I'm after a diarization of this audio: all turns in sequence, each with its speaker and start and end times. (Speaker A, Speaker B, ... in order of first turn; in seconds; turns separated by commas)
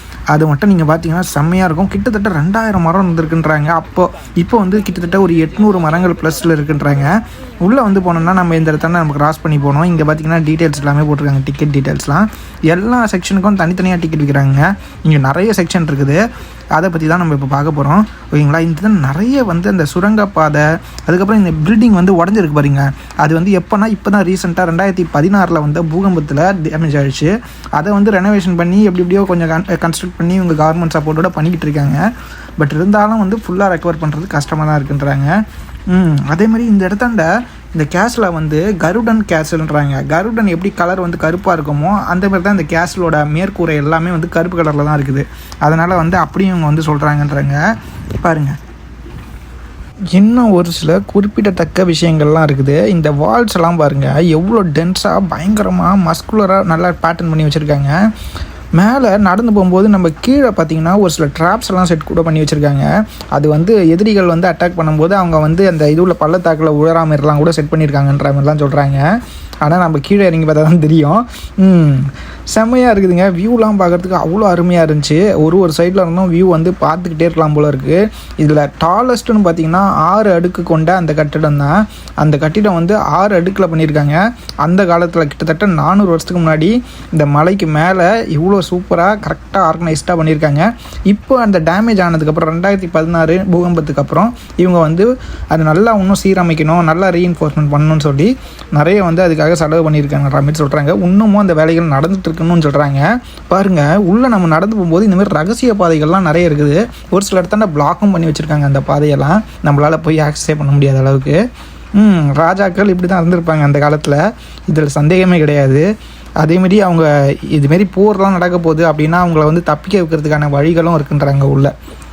Speaker A: 0.3-32.1, Speaker A: 32.6-47.6, Speaker A: 48.1-48.6, Speaker A: 50.1-58.0, Speaker A: 58.8-111.4, Speaker A: 112.0-115.9, Speaker A: 116.4-121.7